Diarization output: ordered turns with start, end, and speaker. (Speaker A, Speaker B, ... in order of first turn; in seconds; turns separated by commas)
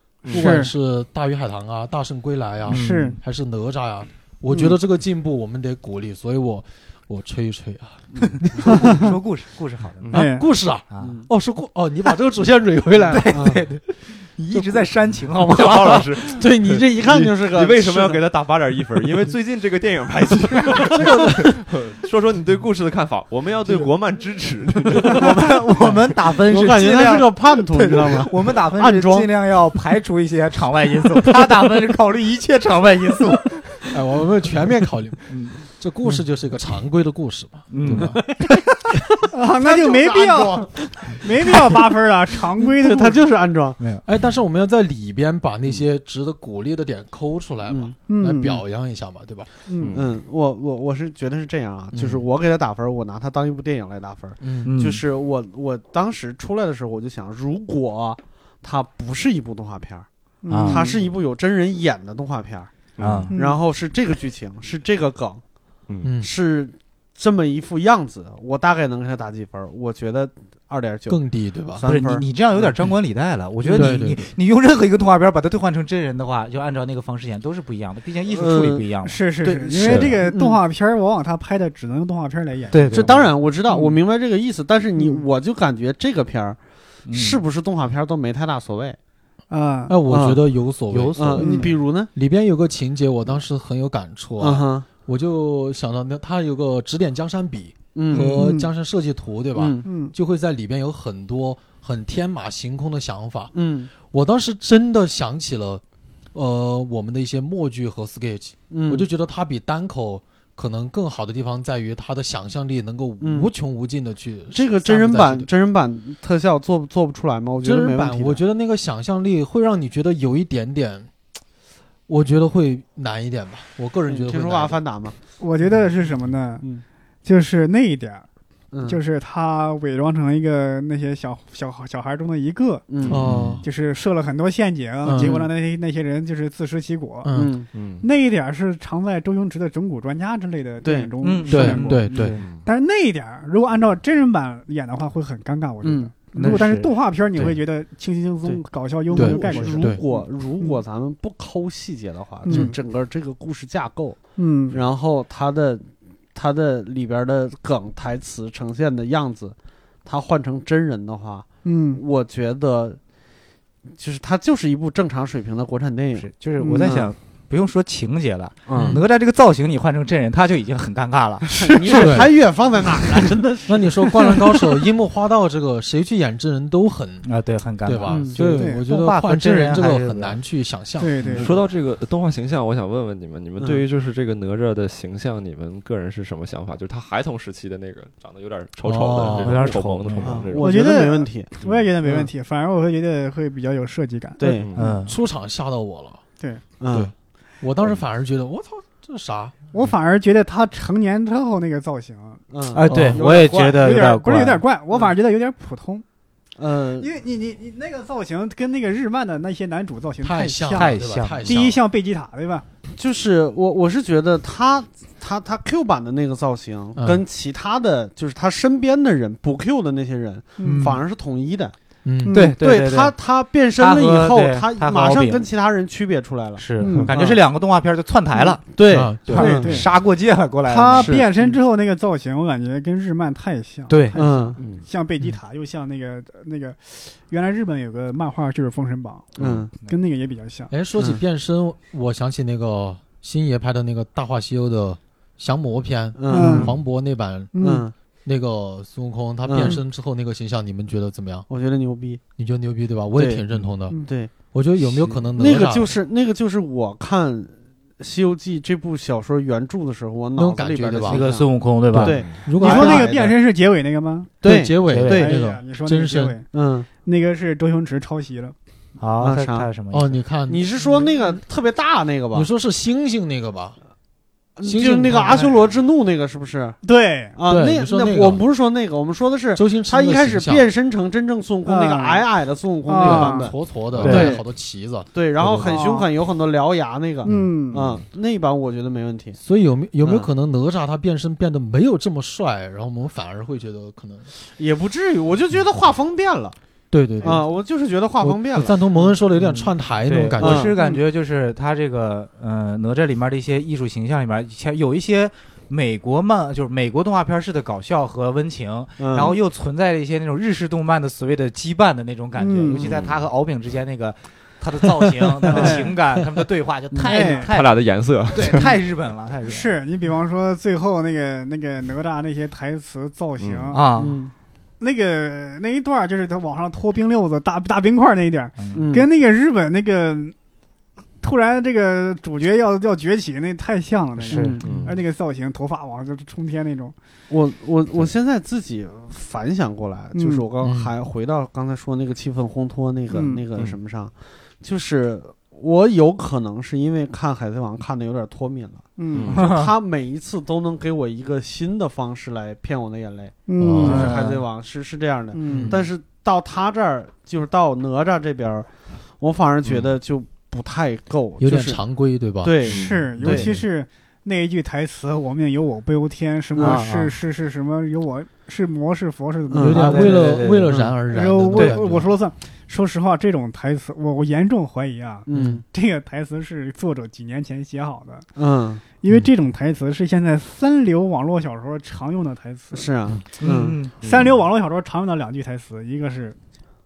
Speaker A: 0.2-0.5, Speaker B: 0.3-8.9, Speaker C: 0.3-0.7, Speaker D: 2.7-3.2, Speaker C: 2.7-3.2, Speaker D: 8.5-10.2, Speaker C: 8.7-9.1, Speaker C: 10.1-10.5, Speaker B: 10.1-13.3, Speaker D: 10.9-11.2, Speaker E: 11.0-11.3, Speaker D: 13.1-16.1, Speaker E: 13.3-13.6, Speaker A: 15.4-25.3, Speaker E: 16.2-18.2, Speaker E: 20.8-21.6, Speaker D: 25.1-33.9, Speaker E: 26.4-29.3, Speaker B: 33.9-38.2, Speaker D: 35.3-36.2, Speaker D: 37.7-38.4, Speaker E: 37.9-38.6, Speaker E: 39.2-41.9, Speaker C: 39.3-43.2, Speaker E: 42.6-43.8, Speaker D: 43.8-44.0, Speaker B: 44.0-49.5, Speaker E: 47.7-48.0, Speaker C: 48.1-48.6, Speaker C: 49.7-50.0, Speaker A: 49.8-50.1, Speaker E: 49.9-60.1, Speaker B: 54.4-54.7, Speaker D: 54.6-55.0, Speaker C: 60.4-61.0, Speaker D: 60.5-60.9, Speaker E: 60.7-62.7, Speaker A: 63.0-63.3, Speaker D: 63.0-63.4, Speaker C: 63.3-63.6, Speaker E: 63.3-65.4, Speaker B: 66.0-66.3, Speaker E: 66.2-72.7, Speaker B: 71.1-71.8, Speaker D: 71.8-79.2, Speaker E: 73.6-74.0, Speaker B: 73.7-74.2, Speaker E: 78.3-78.9, Speaker C: 79.0-83.1, Speaker E: 79.4-80.6, Speaker A: 79.8-80.2, Speaker D: 82.7-83.2, Speaker E: 82.8-89.0, Speaker C: 83.7-84.0, Speaker C: 85.0-85.2, Speaker D: 87.0-87.4, Speaker C: 89.5-90.0, Speaker B: 89.9-105.8, Speaker E: 90.1-90.4, Speaker D: 90.9-91.7, Speaker E: 91.1-92.1, Speaker C: 91.4-91.7, Speaker E: 94.4-94.9, Speaker E: 97.9-98.7, Speaker E: 99.5-99.9, Speaker C: 99.8-100.1, Speaker E: 103.5-103.9, Speaker B: 106.3-115.5, Speaker E: 108.7-109.0, Speaker E: 113.2-113.5, Speaker E: 114.5-118.4, Speaker B: 117.6-121.1, Speaker B: 122.1-124.8, Speaker E: 124.1-125.2, Speaker C: 125.4-126.6, Speaker C: 127.2-128.3, Speaker E: 128.7-129.0, Speaker C: 128.8-132.8, Speaker E: 132.9-133.2, Speaker B: 133.1-133.6, Speaker C: 133.6-137.3, Speaker B: 135.0-135.4, Speaker E: 135.2-135.5, Speaker B: 137.2-137.5, Speaker E: 137.3-137.7, Speaker A: 137.7-138.1, Speaker C: 138.0-150.8, Speaker E: 140.8-141.1, Speaker D: 141.2-142.4, Speaker B: 141.5-142.4, Speaker A: 142.4-142.6, Speaker E: 145.8-146.1, Speaker D: 146.3-146.9, Speaker E: 148.4-163.0, Speaker B: 149.1-150.0, Speaker C: 152.4-152.8, Speaker C: 154.3-154.8, Speaker C: 161.6-162.0, Speaker E: 163.9-167.1, Speaker D: 166.2-172.0, Speaker C: 166.6-167.0, Speaker E: 168.7-169.0, Speaker B: 168.7-169.0, Speaker C: 171.5-172.2, Speaker E: 171.6-173.9, Speaker B: 172.0-172.3, Speaker B: 173.7-177.3, Speaker D: 177.2-180.4, Speaker B: 177.8-181.5, Speaker E: 178.1-178.5, Speaker C: 178.6-178.8, Speaker C: 181.0-181.5, Speaker A: 181.3-190.8, Speaker B: 188.8-189.7, Speaker D: 189.3-190.4, Speaker E: 190.2-192.3, Speaker C: 190.6-195.0, Speaker E: 194.4-194.7, Speaker A: 194.5-194.8, Speaker D: 194.7-195.2, Speaker B: 195.0-196.2, Speaker C: 196.4-196.6, Speaker E: 196.8-197.1, Speaker B: 196.9-199.6, Speaker C: 199.7-202.4, Speaker E: 202.5-203.8, Speaker D: 202.7-204.6, Speaker B: 202.9-203.2, Speaker C: 203.4-206.0, Speaker E: 206.6-207.1, Speaker C: 207.0-212.6, Speaker B: 210.2-211.8, Speaker D: 210.7-211.4, Speaker E: 212.9-221.7, Speaker B: 216.9-217.2, Speaker C: 220.6-220.9, Speaker D: 220.6-221.0, Speaker B: 222.0-222.4, Speaker C: 222.2-222.6, Speaker D: 222.3-223.2, Speaker E: 222.6-227.4, Speaker D: 223.7-225.4, Speaker D: 226.6-231.1, Speaker C: 226.8-227.1, Speaker E: 228.6-229.8, Speaker B: 228.9-229.5, Speaker C: 229.2-229.9, Speaker C: 230.6-240.7, Speaker E: 230.9-231.5, Speaker D: 233.9-234.2, Speaker E: 234.1-234.7, Speaker A: 234.6-234.8, Speaker E: 239.4-239.7, Speaker B: 240.7-247.5, Speaker E: 246.2-246.8, Speaker C: 246.3-246.7, Speaker C: 247.5-247.8, Speaker E: 247.6-247.9, Speaker B: 248.2-251.5, Speaker E: 249.4-249.8, Speaker E: 251.5-252.2, Speaker B: 252.4-256.0, Speaker E: 253.2-253.5, Speaker C: 253.9-254.1, Speaker E: 254.0-254.3, Speaker E: 255.3-263.4, Speaker B: 260.3-261.3, Speaker D: 261.1-262.2, Speaker B: 261.9-263.1, Speaker C: 262.5-264.4, Speaker E: 264.4-265.4, Speaker B: 264.4-266.4, Speaker D: 264.8-265.2, Speaker C: 265.1-268.5, Speaker E: 266.5-266.9, Speaker D: 269.0-270.2, Speaker E: 269.2-269.7, Speaker B: 269.9-270.7, Speaker E: 270.5-272.5, Speaker B: 272.3-273.8, Speaker E: 274.6-276.8, Speaker B: 274.6-275.4, Speaker C: 276.8-277.4, Speaker E: 277.3-284.5, Speaker B: 277.4-278.4, Speaker B: 279.5-280.7, Speaker C: 281.6-282.3, Speaker C: 282.9-283.5, Speaker B: 282.9-285.8, Speaker D: 284.0-284.4, Speaker C: 284.0-284.3, Speaker E: 285.1-289.4, Speaker C: 285.6-286.1, Speaker C: 287.2-287.9, Speaker B: 289.4-294.3, Speaker E: 290.0-290.3, Speaker E: 294.6-296.6, Speaker B: 296.9-297.5, Speaker E: 297.2-299.1, Speaker B: 298.2-300.7, Speaker D: 299.3-319.7, Speaker E: 300.4-301.0, Speaker E: 309.0-309.4, Speaker C: 312.4-312.8, Speaker A: 312.8-313.2, Speaker C: 315.5-315.9, Speaker E: 315.5-315.9, Speaker E: 316.9-317.4, Speaker C: 317.0-317.5, Speaker A: 317.5-318.7, Speaker C: 319.4-323.9, Speaker A: 323.4-323.8, Speaker D: 323.7-324.1, Speaker E: 324.0-324.3, Speaker C: 324.8-330.3, Speaker D: 328.6-328.8, Speaker E: 328.7-329.1, Speaker C: 331.2-336.9, Speaker D: 334.3-334.6, Speaker E: 334.3-334.9, Speaker A: 334.6-334.9, Speaker E: 337.3-361.8, Speaker C: 340.1-340.5, Speaker B: 340.6-340.9, Speaker C: 343.1-343.4, Speaker C: 349.0-349.4, Speaker A: 349.1-349.4, Speaker D: 349.3-349.7, Speaker C: 353.4-354.2, Speaker B: 353.6-354.2, Speaker D: 353.8-354.4, Speaker C: 355.3-355.8, Speaker B: 355.5-355.9, Speaker A: 359.6-359.9, Speaker B: 361.4-363.5, Speaker E: 362.4-363.5, Speaker A: 362.6-363.1, Speaker C: 362.7-370.2, Speaker E: 366.5-366.9, Speaker D: 366.6-367.1, Speaker E: 369.5-370.1, Speaker B: 369.6-372.1, Speaker D: 369.7-370.7, Speaker E: 370.7-371.0, Speaker C: 371.1-378.3, Speaker D: 371.5-371.8, Speaker E: 375.3-375.6, Speaker E: 378.4-378.8, Speaker C: 379.0-382.9, Speaker E: 382.7-383.8, Speaker D: 383.4-383.9, Speaker C: 384.0-386.4, Speaker A: 384.0-384.4